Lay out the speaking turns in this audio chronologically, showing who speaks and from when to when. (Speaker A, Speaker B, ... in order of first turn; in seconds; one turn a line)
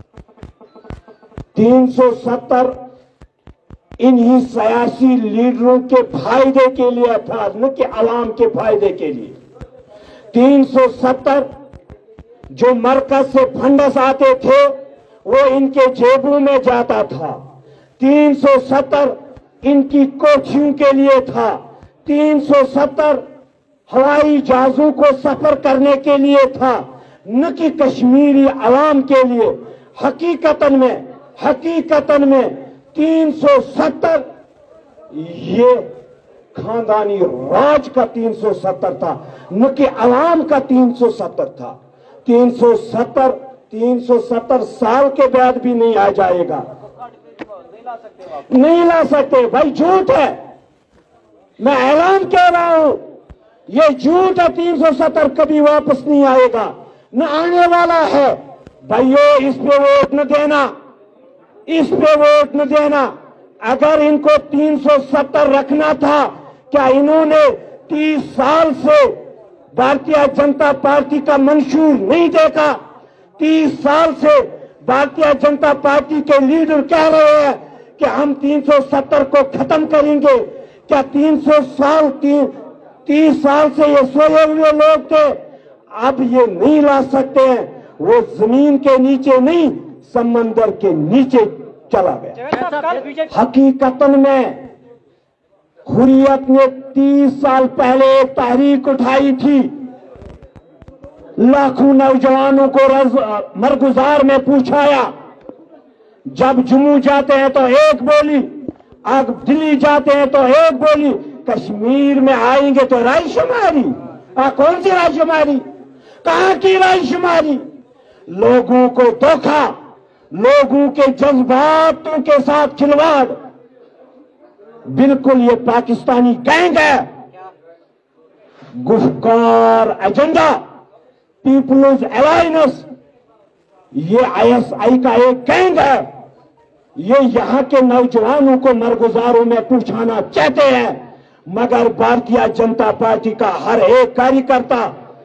Speaker A: 1.5-2.7
Speaker A: 4.0-9.3
Speaker A: 10.3-11.5
Speaker A: 12.5-17.4
Speaker A: 18.0-23.2
Speaker A: 23.9-34.2
Speaker A: 35.1-35.9
Speaker A: 36.5-46.6
Speaker A: 48.4-50.4
Speaker A: 51.6-53.0
Speaker A: 53.7-60.7
Speaker A: 61.7-69.2
Speaker A: 69.7-72.8
Speaker A: 73.4-82.5
Speaker A: 83.0-85.4
Speaker A: 85.9-92.5
Speaker A: 93.2-94.7
Speaker A: 95.8-99.7
Speaker A: 101.4-105.1
Speaker A: 106.3-108.5
Speaker A: 109.0-115.6
Speaker A: 116.2-117.6
Speaker A: 118.3-119.8
Speaker A: 120.3-123.4
Speaker A: 124.9-127.1
Speaker A: 128.8-130.6
Speaker A: 131.4-132.9
Speaker A: 133.9-136.1
Speaker A: 137.0-144.9